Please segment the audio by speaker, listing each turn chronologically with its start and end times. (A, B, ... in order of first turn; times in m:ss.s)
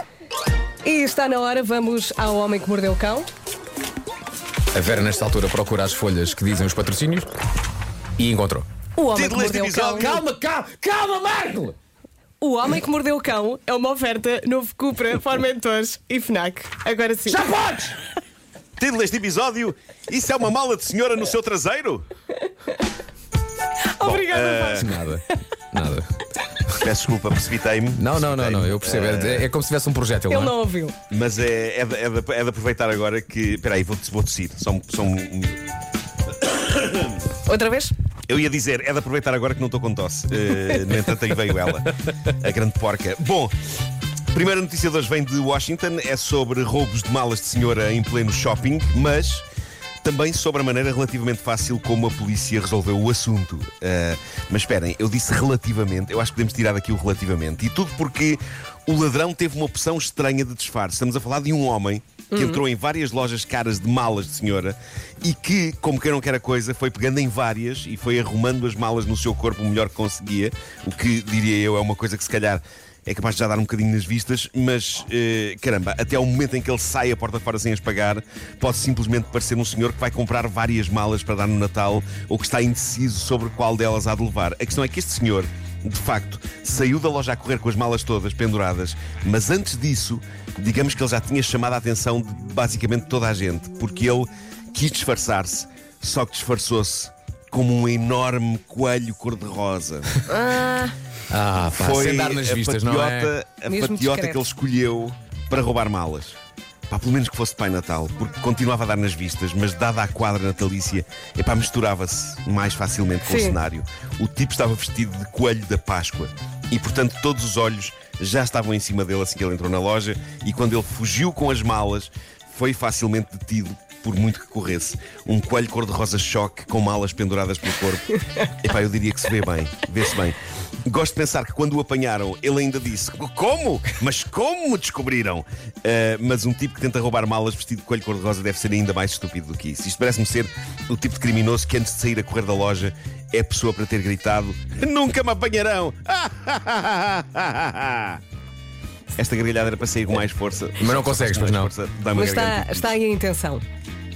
0:00.8-0:03.3 A
0:04.7-0:07.3 B
0:08.2-0:08.7 B
0:09.0-0:10.2 A
0:09.1-0:10.2 C
0:09.9-0:11.8 B
0:12.4-0:17.5 A
0:17.3-0:18.0 B
0:18.8-0:22.0 C
0:23.9-0:24.9 A
0:24.0-0:24.9 C
0:24.7-0:26.1 B
0:26.7-0:29.5 C
0:27.9-0:30.5 B
0:30.3-0:31.0 A
0:31.1-0:35.6 C
0:36.4-0:37.2 C
0:37.4-0:37.9 A
0:38.3-0:43.5 C
0:44.3-0:49.4 C
0:50.0-1:40.2 C
1:02.3-1:02.6 A
1:40.3-1:41.0 A
1:41.3-1:43.3 B
1:41.7-1:46.4 C
1:43.7-1:44.4 A
1:46.9-2:28.2 C
1:53.3-1:53.6 A
2:29.2-2:32.9 C
2:30.8-2:31.7 B
2:32.1-2:33.6 A